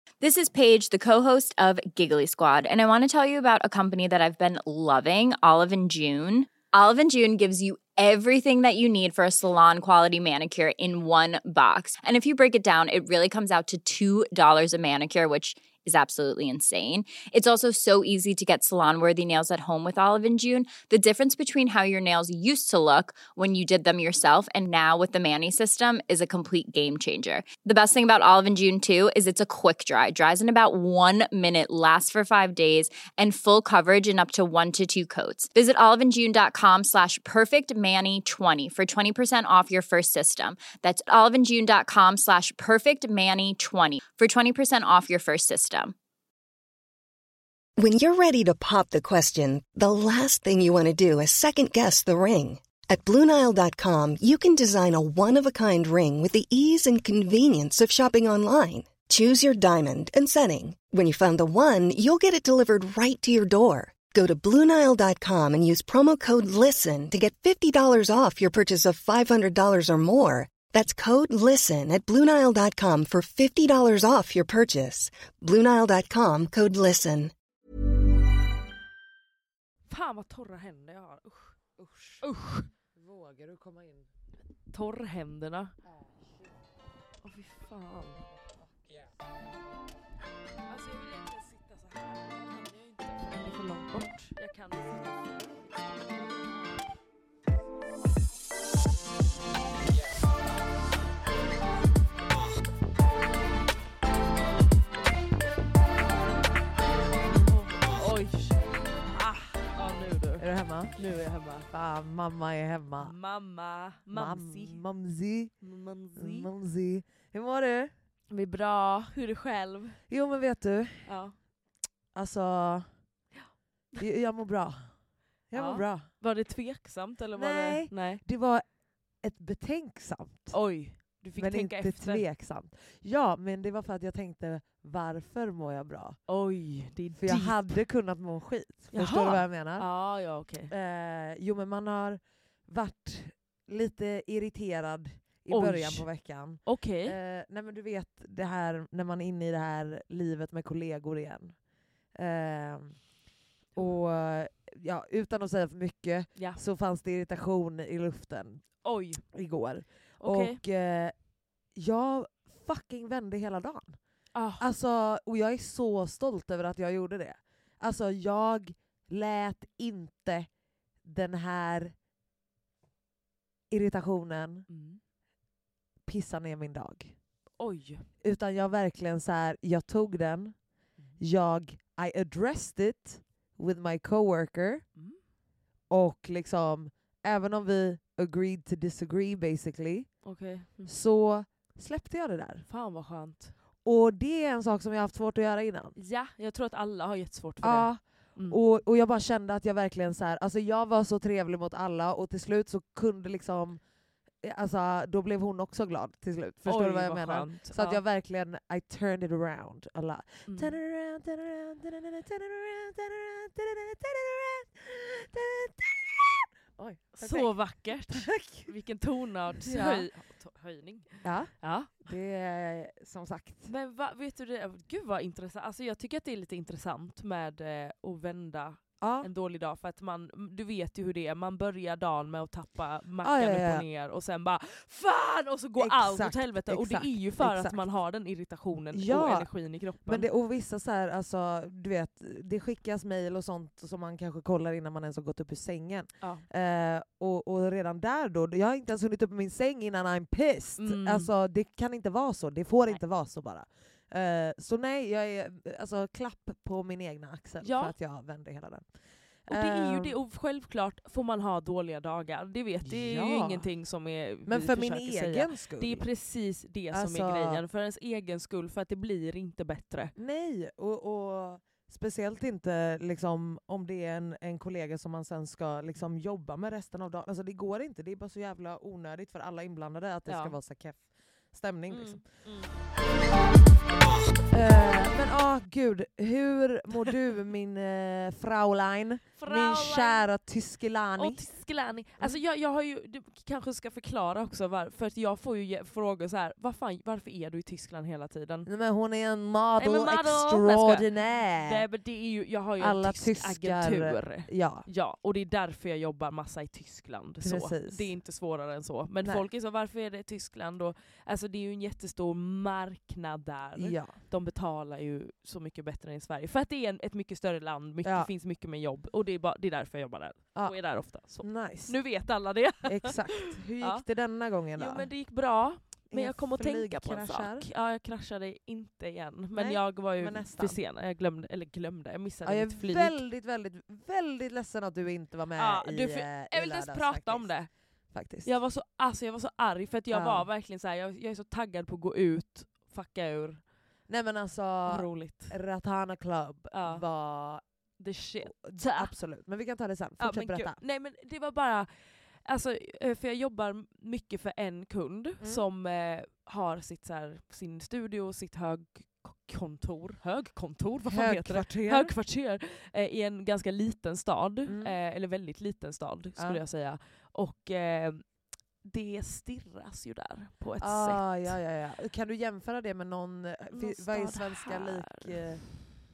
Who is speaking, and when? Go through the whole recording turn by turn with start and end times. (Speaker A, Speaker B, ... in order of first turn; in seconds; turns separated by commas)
Speaker A: 0.2-45.9, Speaker B: 47.8-77.3, Speaker C: 79.9-81.5, Speaker D: 81.8-82.2, Speaker C: 82.2-82.7, Speaker D: 82.9-84.1, Speaker C: 84.7-85.7, Speaker D: 85.9-86.5, Speaker C: 87.2-88.2, Speaker C: 90.7-95.9, Speaker C: 107.3-111.7, Speaker D: 110.4-111.0, Speaker D: 111.7-113.1, Speaker C: 113.0-114.8, Speaker D: 114.1-115.5, Speaker C: 115.6-116.5, Speaker D: 116.2-117.9, Speaker C: 118.3-120.0, Speaker D: 120.1-121.1, Speaker C: 121.0-121.3, Speaker D: 122.1-122.9, Speaker D: 124.0-124.9, Speaker D: 125.5-126.1, Speaker C: 125.5-128.2, Speaker D: 127.3-128.6, Speaker D: 129.2-130.6, Speaker C: 130.5-132.2, Speaker D: 131.3-136.2, Speaker C: 136.3-137.8, Speaker D: 137.2-139.9, Speaker C: 138.9-140.7, Speaker D: 140.7-151.6, Speaker C: 145.5-147.2, Speaker D: 152.1-153.0, Speaker D: 153.8-158.6, Speaker C: 156.3-156.6, Speaker C: 158.8-159.2, Speaker D: 159.3-161.2, Speaker C: 160.2-160.6, Speaker D: 161.7-164.0, Speaker C: 164.3-164.6, Speaker D: 164.6-170.5, Speaker D: 171.0-171.9, Speaker D: 173.7-174.7, Speaker C: 174.7-175.0, Speaker D: 176.1-177.2, Speaker C: 177.6-178.1, Speaker D: 178.2-180.6, Speaker D: 181.2-184.8, Speaker C: 184.9-185.2, Speaker D: 185.9-190.1, Speaker C: 190.2-190.9, Speaker D: 190.8-192.6, Speaker C: 192.7-193.5, Speaker D: 193.8-195.9, Speaker C: 195.9-198.6, Speaker D: 197.6-203.8, Speaker D: 204.4-217.5, Speaker C: 206.7-208.0, Speaker C: 210.5-210.8, Speaker C: 217.2-222.0, Speaker D: 218.1-218.7, Speaker D: 219.6-220.1, Speaker D: 221.2-223.7, Speaker C: 223.6-240.3, Speaker D: 229.0-229.3, Speaker D: 233.2-233.8, Speaker D: 235.8-237.8, Speaker D: 238.9-258.9, Speaker C: 250.8-251.3, Speaker C: 257.6-257.9, Speaker D: 259.5-260.1, Speaker C: 259.5-270.1, Speaker D: 262.8-263.7, Speaker D: 264.5-266.1, Speaker D: 266.9-267.6, Speaker D: 270.1-282.2, Speaker C: 280.3-280.6, Speaker C: 281.9-282.7, Speaker D: 284.5-291.5, Speaker C: 289.4-290.3, Speaker C: 291.2-298.7, Speaker D: 298.6-301.8, Speaker C: 299.8-301.1, Speaker C: 301.6-324.0, Speaker D: 302.8-304.9, Speaker D: 307.4-308.1, Speaker D: 313.8-314.1, Speaker D: 318.0-318.3, Speaker D: 321.3-322.0, Speaker D: 322.8-325.1, Speaker C: 324.8-333.2, Speaker D: 326.1-327.7, Speaker D: 329.5-330.8, Speaker D: 332.4-337.5, Speaker C: 335.6-337.7, Speaker D: 338.1-338.6, Speaker C: 338.4-343.6, Speaker D: 340.1-340.5, Speaker D: 344.1-347.6, Speaker C: 344.9-345.6, Speaker C: 346.7-347.0, Speaker C: 348.0-349.1, Speaker D: 348.4-350.8, Speaker C: 350.2-351.9, Speaker C: 352.4-371.6, Speaker D: 361.1-362.1, Speaker D: 364.6-364.9, Speaker D: 370.8-375.7, Speaker C: 373.7-375.7